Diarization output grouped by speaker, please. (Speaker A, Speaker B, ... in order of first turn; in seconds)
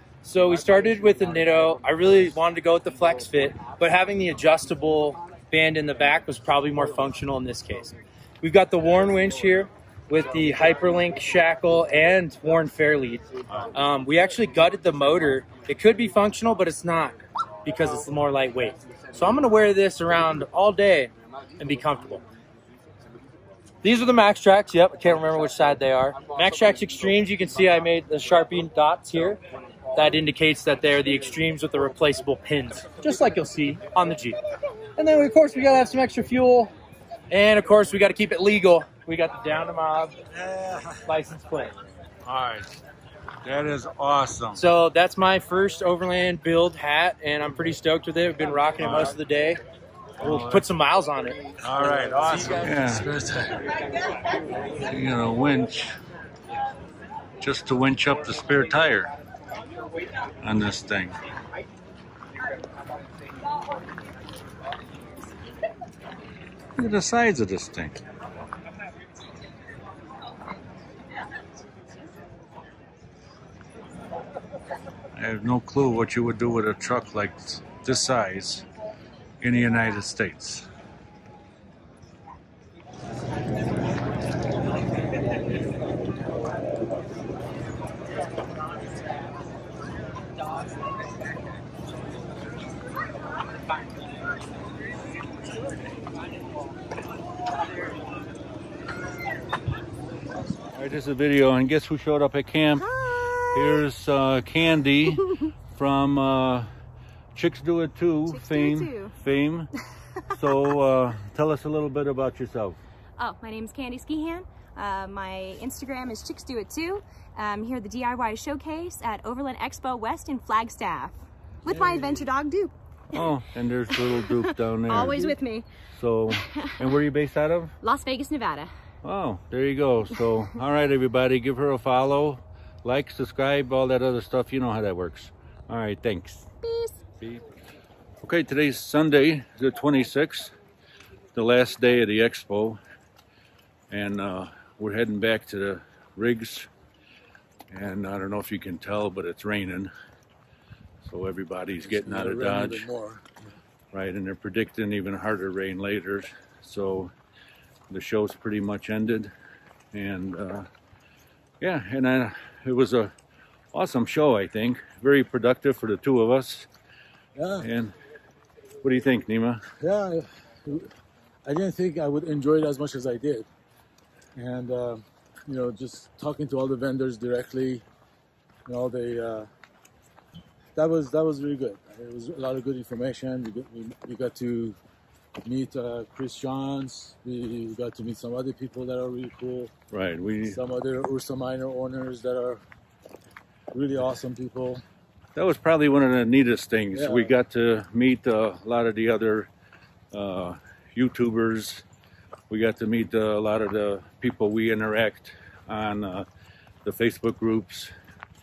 Speaker A: 0.2-22.2, 23.8-29.4, 29.9-34.4, 35.0-36.7, 37.3-40.2, 41.0-41.7, 44.5-49.6, 50.2-53.1
Speaker B: 40.3-41.0, 42.2-42.8, 43.4-44.6, 48.8-49.2, 50.2-50.7, 51.6-53.2, 54.7-56.0, 57.4-59.1, 60.4-61.2, 66.8-68.0, 75.2-78.6, 79.4-80.7, 100.7-102.9, 103.5-106.7, 107.3-109.7, 110.3-112.8, 123.1-125.4, 125.9-127.7, 129.0-136.5, 137.2-137.4, 138.2-140.5, 141.3-142.8, 143.9-146.7, 147.7-149.9, 151.0-152.9, 153.9-157.1, 157.9-159.3, 159.9-160.7, 161.6-163.1, 163.7-166.7, 167.6-167.9, 168.8-169.6, 189.9-190.6, 195.3-199.5, 200.1-201.8, 202.5-206.2, 206.8-207.9
Speaker C: 52.7-53.5, 121.6-122.2, 151.8-153.5, 167.3-167.7, 169.8-170.9, 171.4-173.5, 174.3-177.8, 178.7-179.5, 180.8-184.8, 185.4-189.7, 190.5-192.6, 193.7-194.8, 196.9-197.3
Speaker D: 102.8-103.8, 108.3-109.1, 113.2-123.3, 123.9-125.7, 126.3-127.0, 127.8-128.7, 136.6-137.0